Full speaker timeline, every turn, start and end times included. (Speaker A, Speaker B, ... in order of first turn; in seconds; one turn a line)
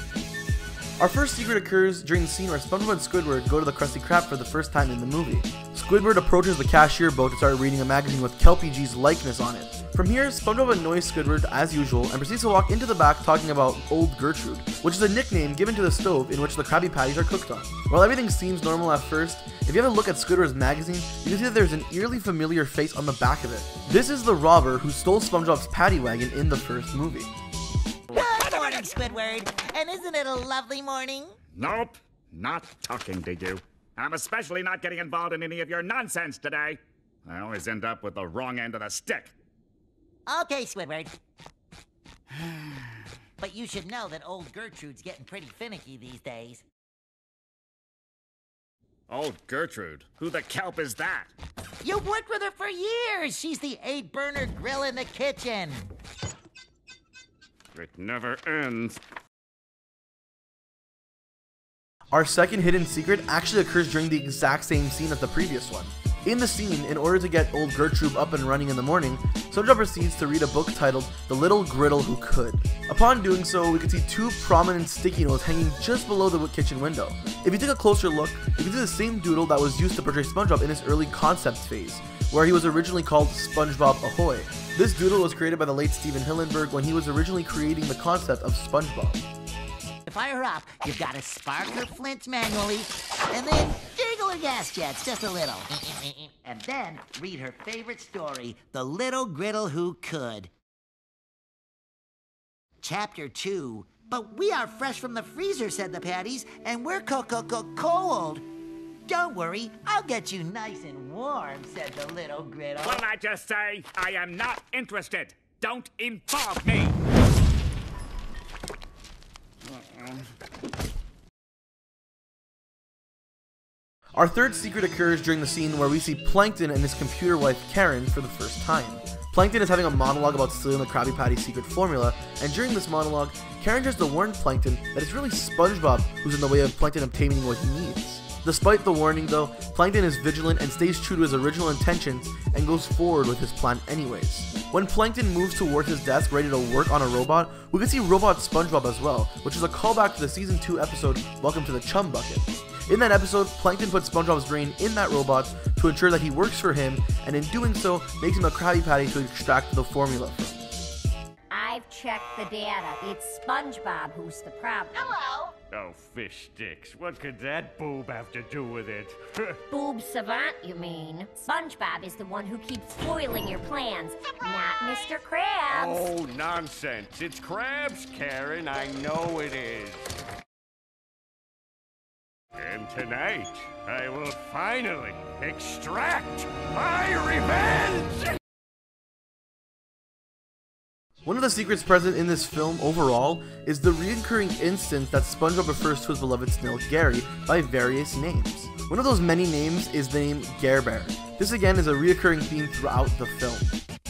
Speaker A: 1.0-27.3
Speaker B: 28.1-31.4
Speaker C: 28.2-28.7
Speaker C: 31.6-39.3
Speaker B: 40.3-41.2
Speaker B: 43.4-46.6
Speaker D: 49.1-50.1
Speaker C: 49.2-51.3
Speaker B: 51.8-55.9
Speaker D: 57.8-59.0
Speaker A: 62.1-89.2
Speaker B: 90.1-100.5
Speaker B: 102.8-108.5
Speaker B: 109.1-113.1
Speaker C: 112.8-117.0
Speaker C: 119.7-120.1
Speaker A: 124.2-160.7
Speaker E: 161.5-165.1
Speaker B: 165.0-165.6
Speaker D: 165.7-169.6
Speaker E: 169.7-176.1
Speaker D: 175.7-180.1
Speaker D: 182.6-188.4
Speaker A: 191.3-203.7